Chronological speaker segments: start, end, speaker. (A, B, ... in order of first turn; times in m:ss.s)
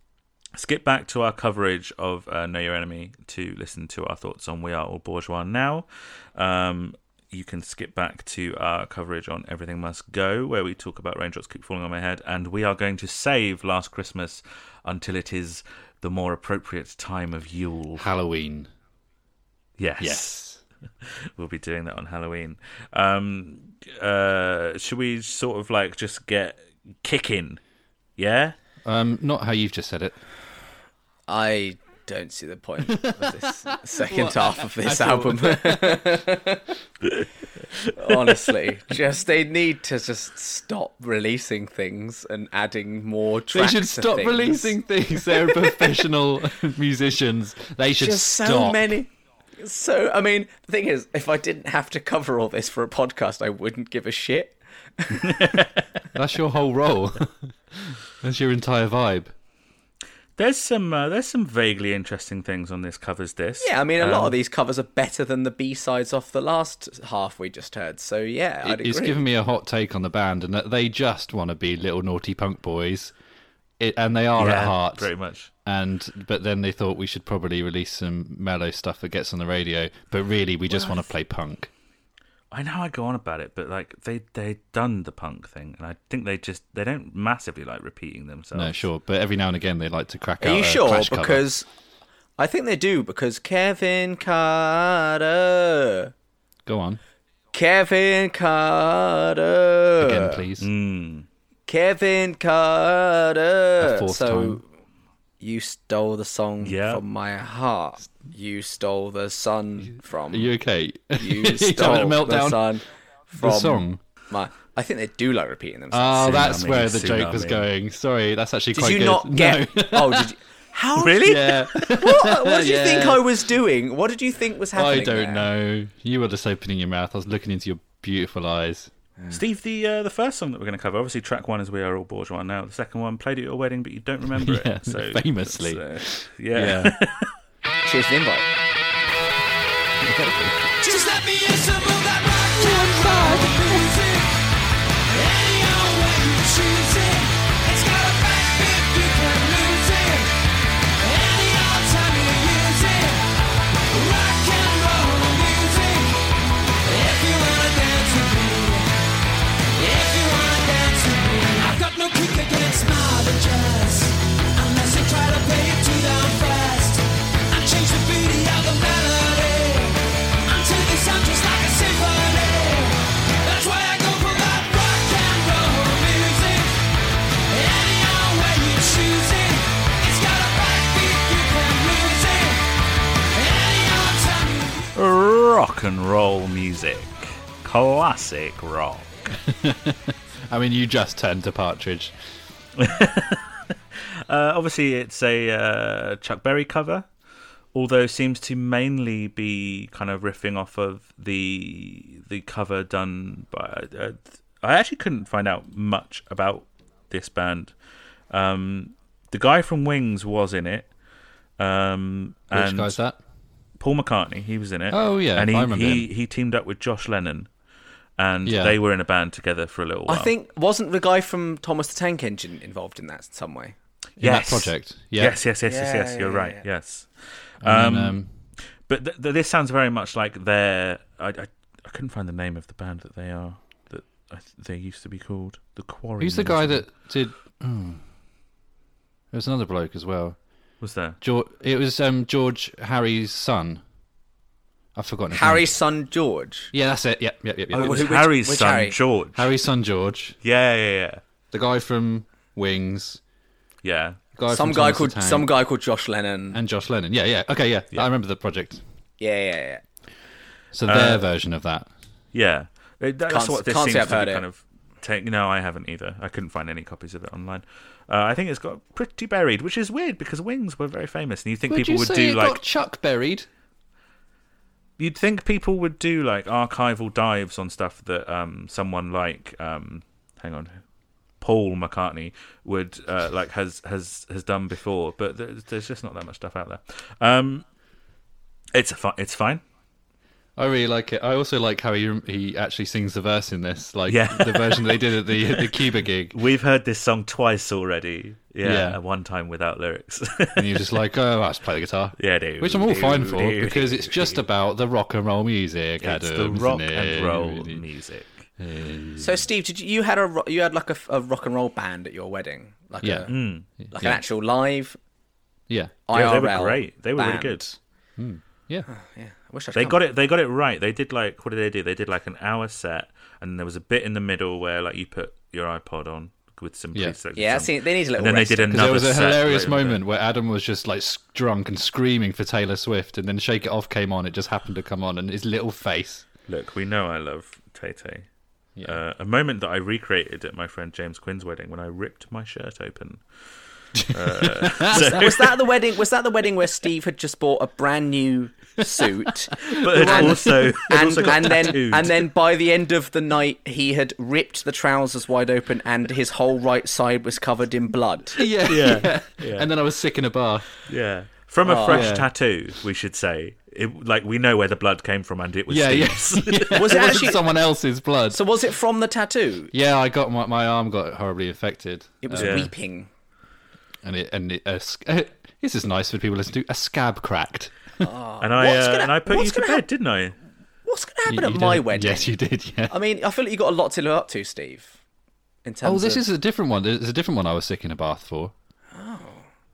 0:00.6-0:18.1 A
0:18.0-0:18.7 B
0:19.8-0:20.4 A
0:20.0-0:20.6 B
0:21.0-0:27.6 A
0:28.2-0:28.6 A
0:28.8-0:30.2 B
0:31.3-0:36.8 C
0:32.9-0:36.2 B
0:37.9-0:44.8 C
0:43.5-0:49.0 B
0:45.3-0:45.9 C
0:48.0-0:55.6 C
0:55.2-0:55.9 A
0:56.1-0:59.3 B
1:00.4-1:04.4 A
1:03.6-1:09.2 C
1:08.6-1:13.1 B
1:13.8-1:15.1 B
1:14.4-1:15.5 A
1:15.6-1:21.7 B
1:22.5-1:28.9 A
1:28.5-1:31.5 B
1:30.4-1:31.7 C
1:32.4-1:36.1 C
1:36.7-1:37.0 B
1:37.5-1:40.4 C
1:40.0-1:40.7 B
1:40.6-1:41.3 A
1:41.7-1:44.6 C
1:43.8-1:44.6 B
1:45.4-1:50.5 C
1:46.6-1:47.0 A
1:49.9-1:52.7 B
1:51.2-1:52.8 C
1:53.3-1:54.0 B
1:53.4-1:56.6 C
1:55.9-2:00.4 B
1:56.2-1:57.7 A
1:58.7-2:05.5 C
2:01.0-2:03.5 B
2:04.7-2:08.9 B
2:09.3-2:17.3 A
2:14.3-2:16.9 B
2:17.8-2:18.5 C
2:20.1-2:20.5 A
2:20.8-2:24.4 D
2:22.6-2:23.9 B
2:25.1-2:30.4 D
2:31.0-2:33.3 D
2:33.9-2:36.2 D
2:36.8-2:38.9 D
2:39.8-2:56.8 D
2:57.5-3:02.7 D
3:03.3-3:04.9 D
3:05.0-3:09.3 A
3:09.4-3:12.1 B
3:12.8-3:17.1 A
3:17.7-3:27.7 A
3:28.3-3:30.9 A
3:31.6-3:33.0 A
3:32.5-3:33.2 B
3:33.8-3:37.5 A
3:34.9-3:36.1 B
3:38.2-3:40.3 A
3:38.4-3:38.8 B
3:40.1-3:43.8 C
3:44.2-3:45.4 B
3:44.2-3:48.2 A
3:45.6-3:46.6 C
3:47.6-3:48.3 B
3:48.9-3:56.9 A
3:56.2-3:58.0 B
3:59.3-4:00.4 B
4:00.8-4:01.2 A
4:01.2-4:03.8 B
4:05.0-4:05.7 B
4:05.3-4:06.7 C
4:06.7-4:08.1 B
4:07.7-4:09.5 A
4:07.8-4:09.0 C
4:09.3-4:10.4 B
4:10.4-4:11.2 A
4:11.5-4:13.2 B
4:13.8-4:14.2 A
4:14.3-4:15.5 B
4:14.5-4:16.6 C
4:16.5-4:18.8 B
4:19.2-4:19.8 C
4:20.7-4:21.9 B
4:20.8-4:21.3 A
4:22.3-4:32.6 A
4:23.3-4:24.4 C
4:31.7-4:33.5 B
4:35.0-4:40.8 A
4:41.4-4:47.6 A
4:48.7-4:49.6 A
4:50.6-4:56.4 B
4:54.1-5:01.0 A
4:58.6-4:59.0 B
5:00.6-5:07.8 B
5:02.2-5:04.4 A
5:06.0-5:08.5 A
5:08.6-5:09.5 B
5:09.2-5:13.4 C
5:13.0-5:14.2 B
5:13.3-5:13.7 A
5:13.9-5:15.0 C
5:15.7-5:15.9 B
5:16.1-5:17.7 C
5:16.1-5:17.8 A
5:18.2-5:18.9 B
5:18.9-5:20.0 C
5:19.7-5:30.0 A
5:27.3-5:29.0 C
5:28.7-5:36.2 B
5:36.5-5:38.3 A
5:38.8-5:43.2 A
5:43.9-5:45.7 A
5:44.0-5:45.2 B
5:44.8-5:58.4 C
5:49.0-5:51.8 B
5:49.6-5:52.3 A
5:58.3-6:00.7 B
5:58.7-5:59.7 A
6:00.9-6:07.1 A
6:01.6-6:02.1 C
6:01.8-6:02.3 B
6:05.7-6:08.4 B
6:06.7-6:07.5 C
6:08.3-6:09.7 C
6:09.7-6:12.7 B
6:12.2-6:13.1 C
6:12.4-6:12.7 A
6:14.0-6:18.1 B
6:18.0-6:19.8 C
6:18.4-6:20.4 A
6:20.8-6:22.3 C
6:21.3-6:23.0 B
6:22.9-6:25.0 C
6:25.6-6:26.2 C
6:25.8-6:28.5 B
6:28.9-6:29.4 C